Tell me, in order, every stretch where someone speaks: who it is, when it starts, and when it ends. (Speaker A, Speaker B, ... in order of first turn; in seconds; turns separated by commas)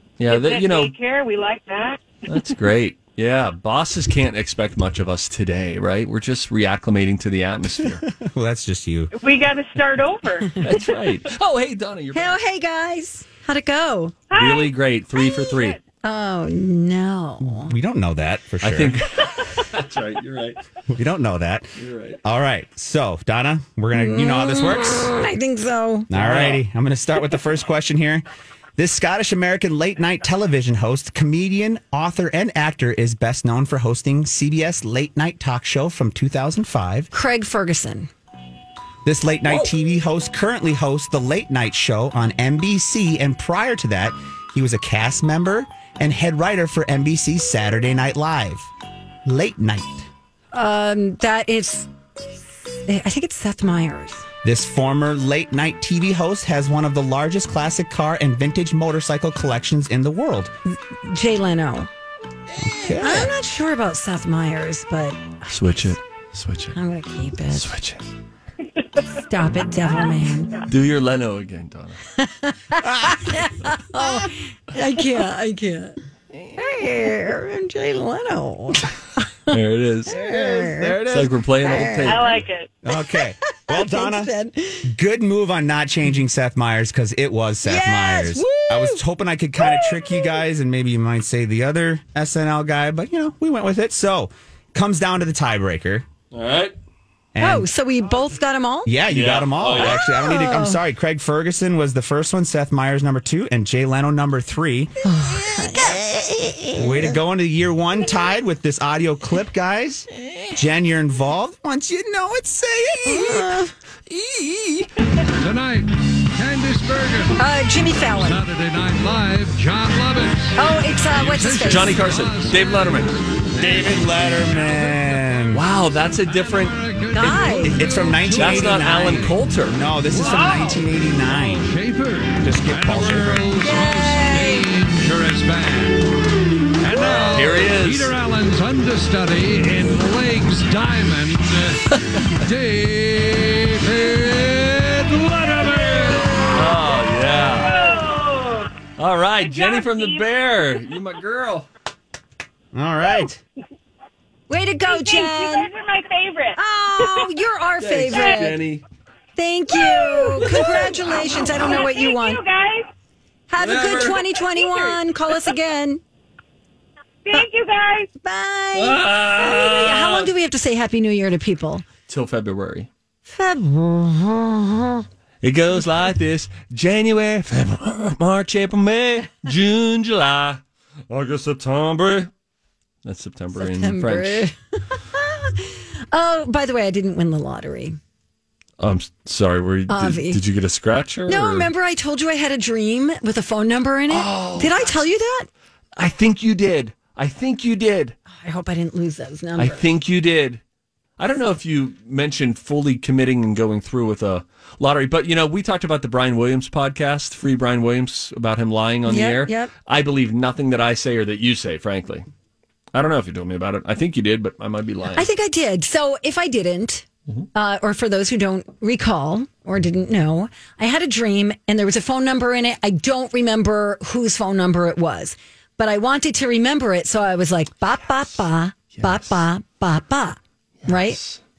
Speaker A: 0.2-0.9, Speaker B: 0.3-2.0, Speaker A: 2.3-8.1, Speaker C: 8.1-9.1, Speaker B: 9.1-10.6, Speaker A: 10.6-12.4, Speaker D: 12.1-14.2, Speaker B: 14.3-14.7, Speaker A: 14.3-15.8, Speaker B: 15.4-15.8, Speaker D: 16.0-17.7, Speaker C: 17.4-19.1, Speaker A: 18.6-20.6, Speaker C: 20.9-25.1, Speaker A: 21.8-22.2, Speaker D: 23.9-26.1, Speaker C: 26.1-28.2, Speaker A: 26.2-26.6, Speaker C: 28.8-37.1, Speaker D: 37.1-38.1, Speaker C: 39.0-48.7, Speaker C: 49.2-50.1, Speaker D: 50.5-51.9, Speaker D: 52.9-54.3, Speaker C: 54.4-60.5, Speaker D: 60.7-61.9, Speaker C: 62.6-63.3, Speaker D: 63.0-65.9, Speaker A: 65.5-66.8, Speaker D: 66.8-67.8, Speaker A: 67.5-68.0, Speaker D: 69.1-70.6, Speaker A: 70.7-72.0, Speaker D: 72.2-76.0, Speaker C: 72.8-73.4, Speaker A: 76.3-76.6, Speaker D: 76.6-79.5, Speaker A: 79.5-80.2, Speaker D: 80.1-81.1, Speaker C: 80.1-81.3, Speaker A: 81.1-82.3, Speaker D: 81.6-82.4, Speaker B: 82.1-82.7, Speaker C: 82.8-84.3, Speaker D: 82.9-84.9, Speaker C: 84.8-96.1, Speaker D: 87.6-89.0, Speaker D: 89.6-90.3, Speaker A: 96.3-96.7, Speaker C: 97.3-97.7, Speaker D: 97.4-98.9, Speaker C: 98.9-105.0, Speaker A: 99.1-100.0, Speaker D: 99.8-100.8, Speaker D: 105.0-107.2, Speaker C: 106.8-113.6, Speaker D: 113.0-113.7, Speaker A: 114.1-114.9, Speaker E: 115.4-117.4, Speaker D: 117.4-118.4, Speaker E: 118.1-125.3, Speaker D: 120.6-122.0, Speaker A: 121.6-123.2, Speaker C: 123.6-125.7, Speaker A: 125.5-126.8, Speaker E: 126.2-129.4, Speaker D: 127.1-127.9, Speaker C: 127.2-131.7, Speaker A: 128.3-129.8, Speaker E: 130.1-136.1, Speaker C: 132.4-133.5, Speaker D: 133.6-134.7, Speaker E: 136.8-146.7, Speaker A: 137.3-138.2, Speaker A: 146.4-147.8, Speaker B: 147.6-148.7, Speaker A: 149.0-151.7, Speaker B: 149.4-150.3, Speaker C: 152.7-153.4, Speaker D: 154.5-155.7, Speaker B: 154.8-157.2, Speaker D: 156.6-158.6, Speaker A: 157.8-158.8, Speaker D: 159.4-162.4, Speaker B: 159.8-160.7, Speaker A: 160.4-161.8, Speaker B: 161.5-162.9, Speaker D: 163.5-166.0, Speaker A: 163.6-164.3, Speaker B: 164.6-164.9, Speaker B: 167.2-168.1, Speaker D: 168.2-171.9, Speaker A: 168.7-170.3, Speaker A: 172.1-172.9, Speaker D: 173.3-175.1, Speaker A: 175.4-182.3, Speaker A: 183.0-184.5, Speaker D: 183.6-188.0, Speaker A: 188.8-191.7, Speaker D: 189.9-190.4, Speaker D: 191.3-195.5, Speaker A: 194.1-195.1, Speaker A: 196.0-198.2, Speaker D: 198.3-199.9, Speaker A: 199.6-200.6, Speaker A: 201.2-212.3, Speaker D: 209.1-209.7, Speaker A: 212.9-215.3, Speaker D: 215.2-231.2, Speaker A: 228.9-229.4, Speaker A: 230.8-231.4